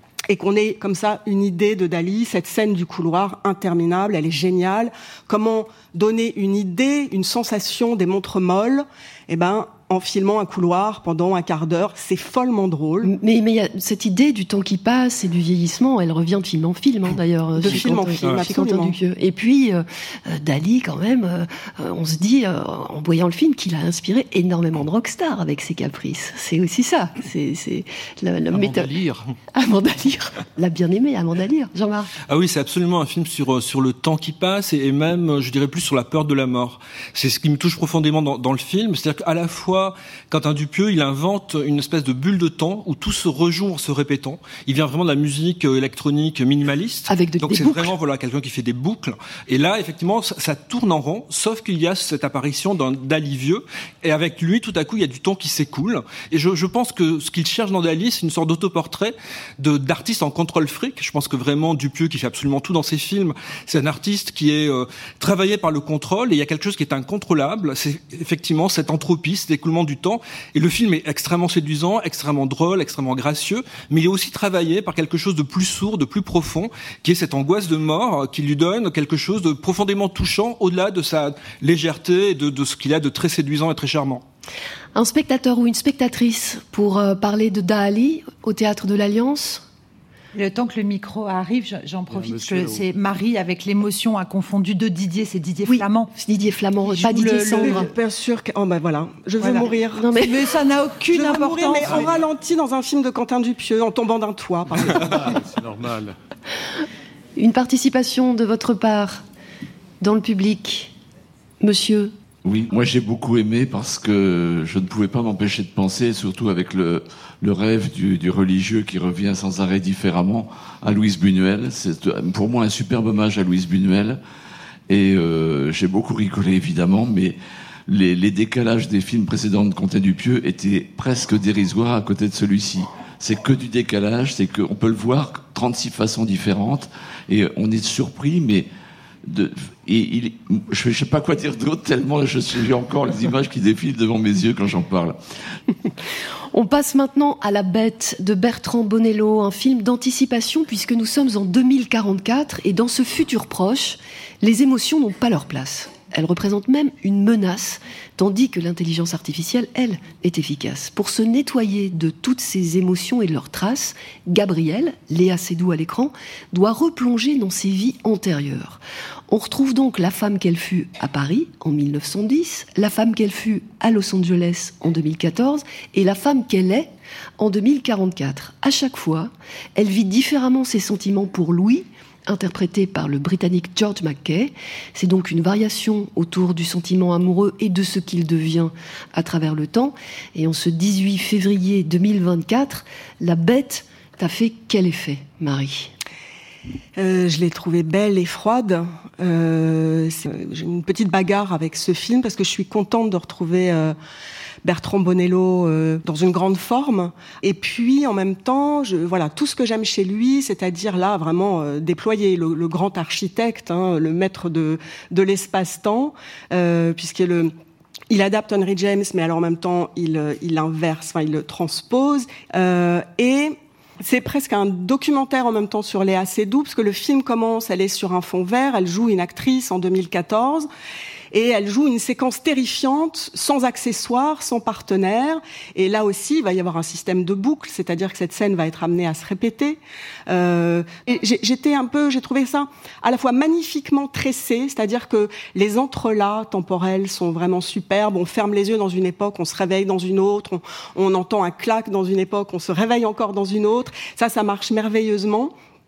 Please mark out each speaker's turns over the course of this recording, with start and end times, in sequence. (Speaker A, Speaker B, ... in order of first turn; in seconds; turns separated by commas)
Speaker A: 0.3-13.1, Speaker B: 13.0-28.9, Speaker A: 17.6-19.0, Speaker C: 28.5-29.3, Speaker B: 29.5-32.1, Speaker D: 32.3-84.2, Speaker B: 47.1-47.9, Speaker B: 85.0-89.7, Speaker E: 90.3-96.1, Speaker C: 92.1-92.9, Speaker B: 95.7-97.9, Speaker E: 96.8-97.9, Speaker A: 97.0-100.1, Speaker E: 99.4-102.1, Speaker B: 99.9-100.5, Speaker A: 101.1-105.2, Speaker C: 104.7-106.2, Speaker B: 107.4-109.2, Speaker B: 110.0-110.9, Speaker B: 111.6-112.1, Speaker F: 112.5-124.2, Speaker F: 124.9-138.7, Speaker F: 139.3-145.2, Speaker B: 146.5-195.9, Speaker A: 197.0-204.0, Speaker A: 204.6-217.5, Speaker A: 218.1-230.7, Speaker A: 231.3-255.5